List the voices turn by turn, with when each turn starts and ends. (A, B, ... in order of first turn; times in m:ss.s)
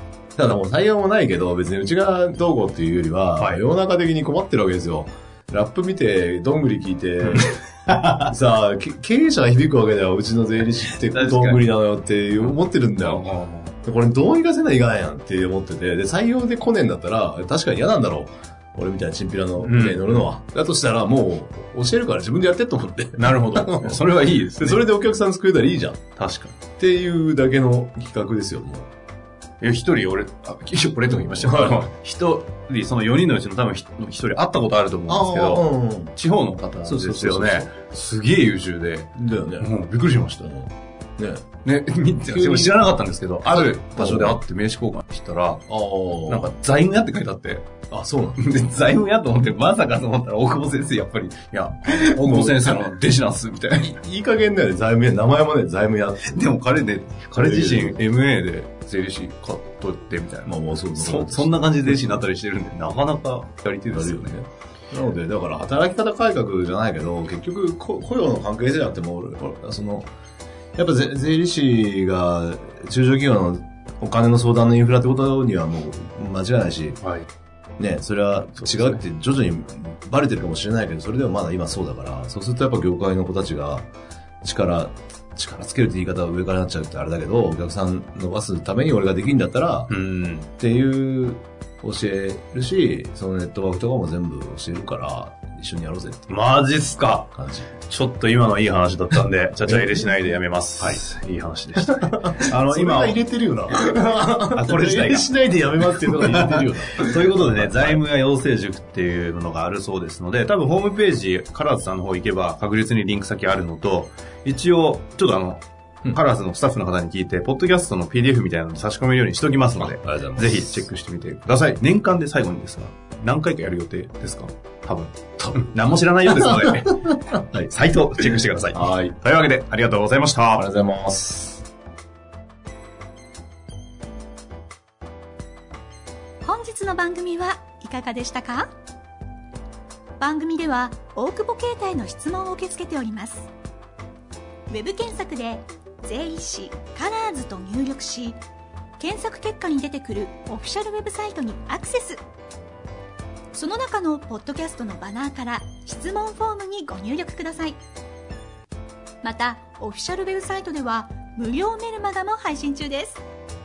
0:00.4-0:07.6 A
0:07.3-0:08.3 B
0:08.3-0:13.2 A
0:11.0-0:11.7 B
0:12.4-0:13.8 B
0:13.8-0:26.1 A
0:19.6-0:20.3 B
0:23.2-0:24.9 B
0:26.2-0:26.6 B
0:26.8-0:28.9 A
0:29.6-0:40.5 B
0:31.1-0:31.9 A
0:35.1-0:36.1 A
0:36.8-0:37.7 A
0:39.2-0:39.7 A
0:40.4-0:41.5 A
0:41.6-0:45.6 B
0:42.3-0:43.0 A
0:43.5-0:44.4 A
0:45.7-0:46.5 A
0:46.3-0:47.7 B
0:47.9-0:48.4 A
0:48.4-0:53.9 B
0:51.9-0:52.8 A
0:53.8-0:56.5 A
0:56.3-1:04.4 B
0:57.3-0:58.0 A
1:00.4-1:02.3 A
1:03.9-1:10.1 A
1:10.8-1:17.0 A
1:17.8-1:23.9 A
1:18.6-1:19.0 B
1:24.4-1:29.9 A
1:29.9-1:30.5 B
1:30.6-1:36.4 A
1:36.3-2:10.7 B
1:37.4-1:37.7 A
1:41.9-1:48.0 A
1:59.8-2:00.8 A
2:06.3-2:07.7 A
2:08.2-2:09.2 A
2:10.6-2:11.6 A
2:16.4-2:18.7 C
2:20.2-2:23.5 C
2:24.7-2:28.4 C
2:29.0-2:32.2 C
2:33.5-2:37.8 C
2:39.2-2:43.2 C